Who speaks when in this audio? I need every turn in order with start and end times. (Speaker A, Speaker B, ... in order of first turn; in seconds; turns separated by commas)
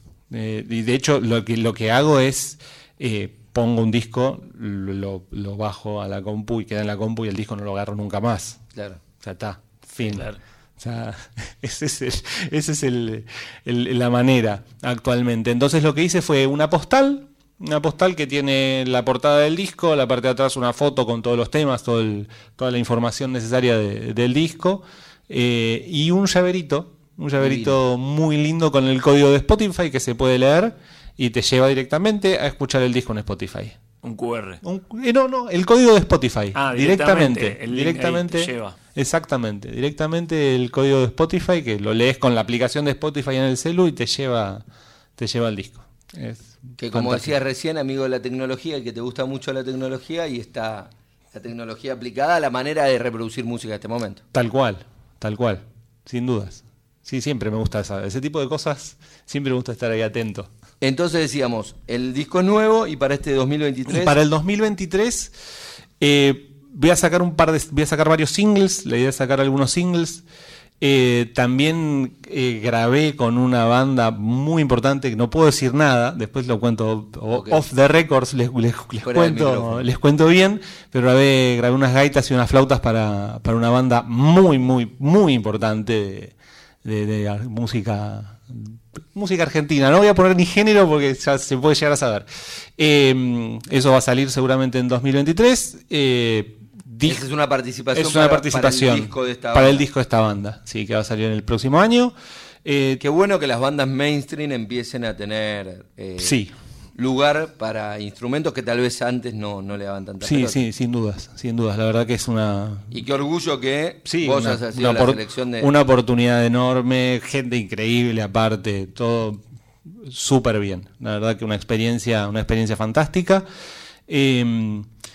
Speaker A: 0.3-8.6, Speaker B: 8.7-9.0, Speaker A: 9.2-33.8, Speaker C: 10.0-10.4, Speaker B: 27.4-27.8, Speaker C: 34.0-34.6, Speaker A: 34.6-44.6, Speaker C: 36.5-38.8, Speaker A: 45.2-47.4, Speaker B: 46.8-54.2, Speaker A: 54.3-60.5, Speaker B: 60.8-64.2, Speaker A: 63.9-65.3, Speaker A: 66.0-70.2, Speaker A: 70.8-97.2, Speaker B: 77.3-77.6, Speaker B: 79.0-79.9, Speaker B: 97.0-99.8, Speaker A: 97.9-103.0, Speaker B: 103.0-106.3, Speaker A: 106.2-106.5, Speaker B: 107.0-110.6, Speaker A: 110.2-113.0, Speaker B: 112.9-115.7, Speaker A: 114.0-123.5, Speaker A: 124.1-124.9